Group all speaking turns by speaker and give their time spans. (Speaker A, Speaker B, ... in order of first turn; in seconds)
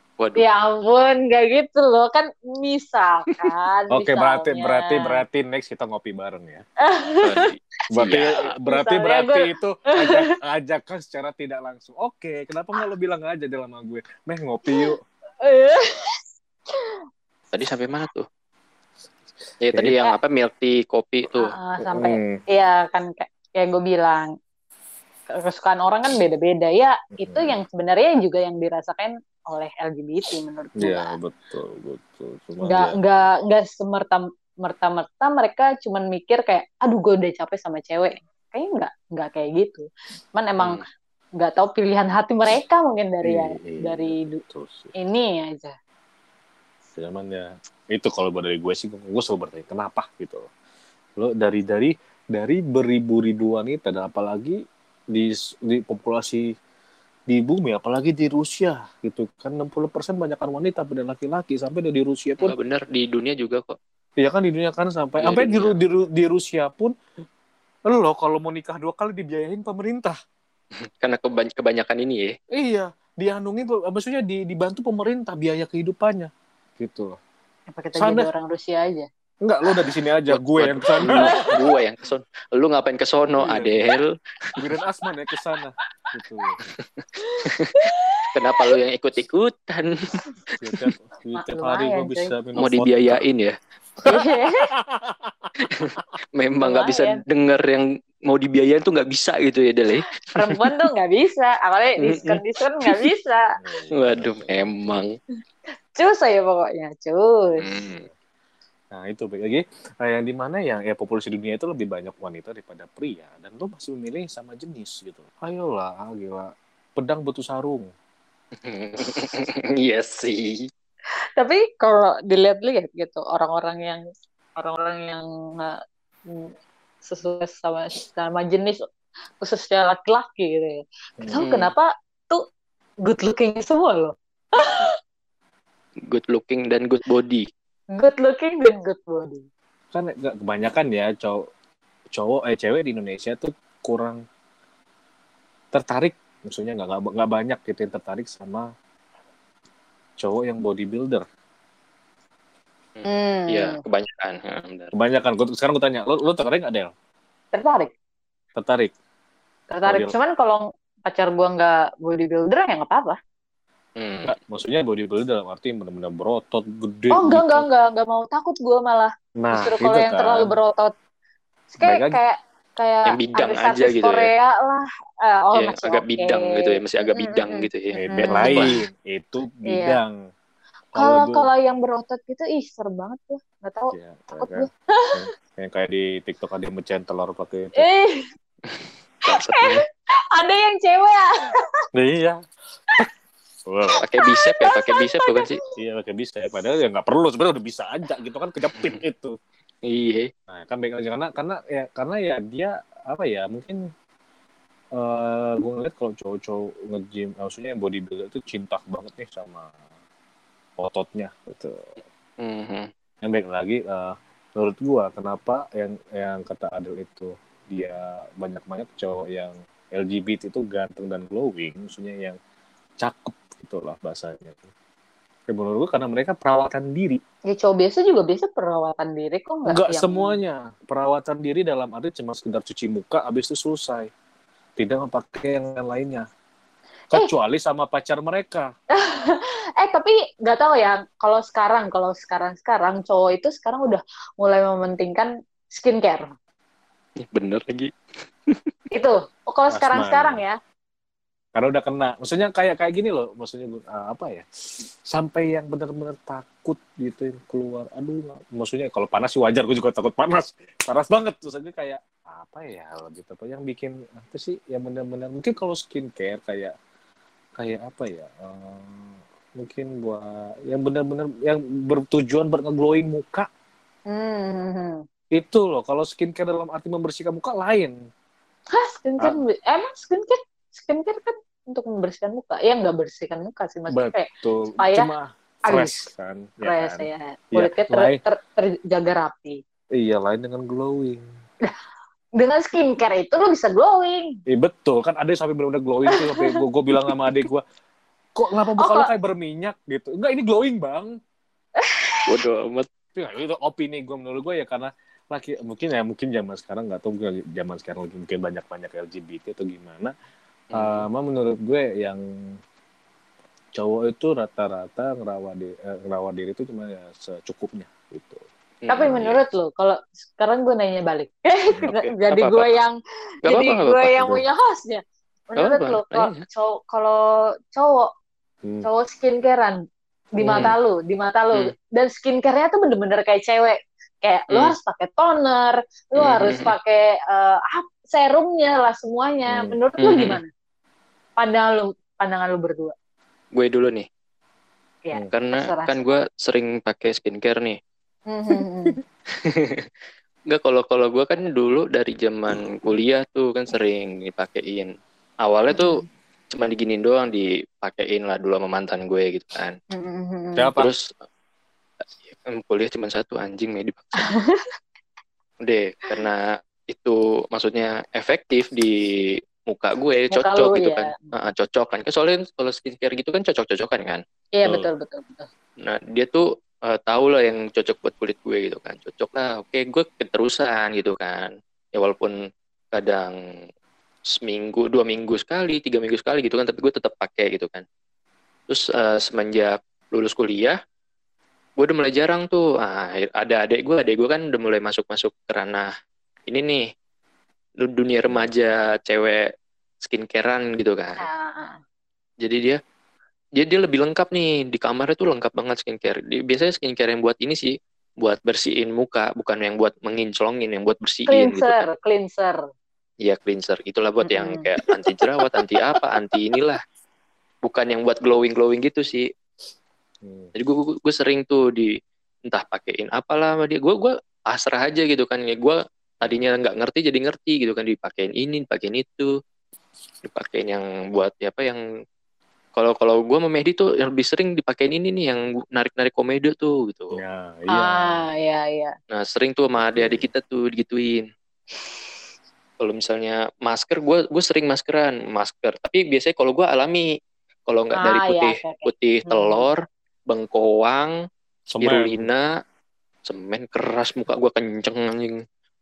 Speaker A: 0.2-0.4, 7.2-8.5, 17.5-18.3, 19.6-21.5, 62.4-63.8, 65.2-65.8, 70.8-72.3, 80.3-84.1, 87.0-87.6, 88.3-90.8, 92.6-93.5, 95.7-100.4, 102.0-103.1, 103.9-105.2, 107.6-108.1, 118.6-120.7, 131.4-131.7, 136.1-137.5, 153.0-154.9, 164.0-164.4, 173.1-174.3, 175.5-178.8, 188.7-189.8, 194.0-195.6, 199.9-200.3, 212.4-212.9, 247.2-247.9, 302.3-302.9, 310.7-311.0, 318.8-319.4, 321.9-322.7, 323.5-324.1, 325.6-326.4, 334.5-334.8, 336.2-336.8, 340.0-340.4, 343.6-344.1, 345.3-347.8, 349.3-349.9, 350.5-359.8, 360.8-361.1, 362.3-364.4, 365.6-374.2, 375.8-382.4, 382.9-383.4, 384.3-387.8, 388.7-390.8, 391.8-395.9, 396.5-396.9, 397.8-399.5, 400.0-401.3, 402.4-402.8, 403.6-411.9, 413.2-416.8, 417.6-419.3, 420.6-421.9, 422.5-429.3, 430.2-431.8, 432.8-437.2, 439.1-441.3, 442.8-447.1, 447.7-451.1, 451.8-452.5, 453.3-455.4
Speaker B: 0.4-5.2, 6.8-7.5, 8.7-10.3, 14.7-16.2, 21.3-24.3, 25.4-31.1, 32.6-40.9, 41.4-44.4, 45.0-45.8, 77.7-79.1, 81.1-81.7, 87.2-88.7, 91.3-92.3, 94.1-94.7, 96.6-97.2, 100.2-103.5, 105.9-107.8, 121.4-124.0, 124.6-126.5, 127.0-128.8, 129.4-132.4, 133.0-135.0, 137.9-139.4, 153.1-153.8, 157.5-157.9, 159.7-163.2, 167.1-170.9, 171.7-178.7, 179.7-180.0, 181.0-185.2, 187.8-188.3, 189.3-191.7, 194.2-195.6, 227.5-230.4, 238.9-246.3, 248.9-250.6, 274.1-275.0, 278.7-284.3, 284.8-285.1, 285.7-286.1, 286.6-289.6, 292.4-294.4, 296.1-296.4, 298.8-299.1, 301.8-302.3, 318.9-328.1, 328.8-329.8, 330.4-340.5, 341.4-342.9, 345.1-346.0, 348.3-349.0, 355.7-356.1, 359.9-360.7, 364.2-364.7, 370.3-371.4, 374.6-375.5, 401.2-401.8, 411.3-412.6, 414.2-414.7, 437.7-438.9, 448.0-449.7
Speaker C: 3.9-6.7, 7.9-15.0, 19.7-20.0, 21.8-22.4, 27.1-27.6, 30.8-33.0, 43.2-44.9, 47.0-50.5, 51.2-54.6, 55.1-56.5, 57.3-62.5, 64.2-66.9, 67.9-70.2, 72.5-77.2, 78.0-78.3, 79.4-81.4, 83.4-83.9, 84.6-86.6, 90.6-93.3, 94.0-95.7, 103.6-104.9, 108.9-117.9, 139.9-141.5, 142.1-144.2, 145.7-148.7, 150.2-151.3, 154.9-156.9, 158.6-158.9, 159.8-160.1, 164.2-167.7, 169.4-170.6, 171.8-172.2, 178.0-180.2, 181.0-181.5, 183.9-187.9, 191.9-192.4, 193.7-194.0, 195.8-199.4, 200.5-203.9, 204.9-209.7, 210.8-212.0, 213.2-222.4, 223.0-224.6, 225.5-227.2, 229.7-234.1, 234.8-236.3, 237.1-238.7, 249.7-250.4, 251.6-266.7, 267.6-273.5, 275.3-278.0, 283.9-288.2, 289.9-291.3, 294.5-297.6, 298.4-301.2, 303.1-310.1, 310.7-312.6, 313.8-318.4, 319.0-319.3, 324.2-324.4, 330.4-330.7, 339.5-339.8, 360.6-360.9, 398.3-398.5, 420.2-420.5, 437.1-438.2, 439.8-440.3, 451.7-452.3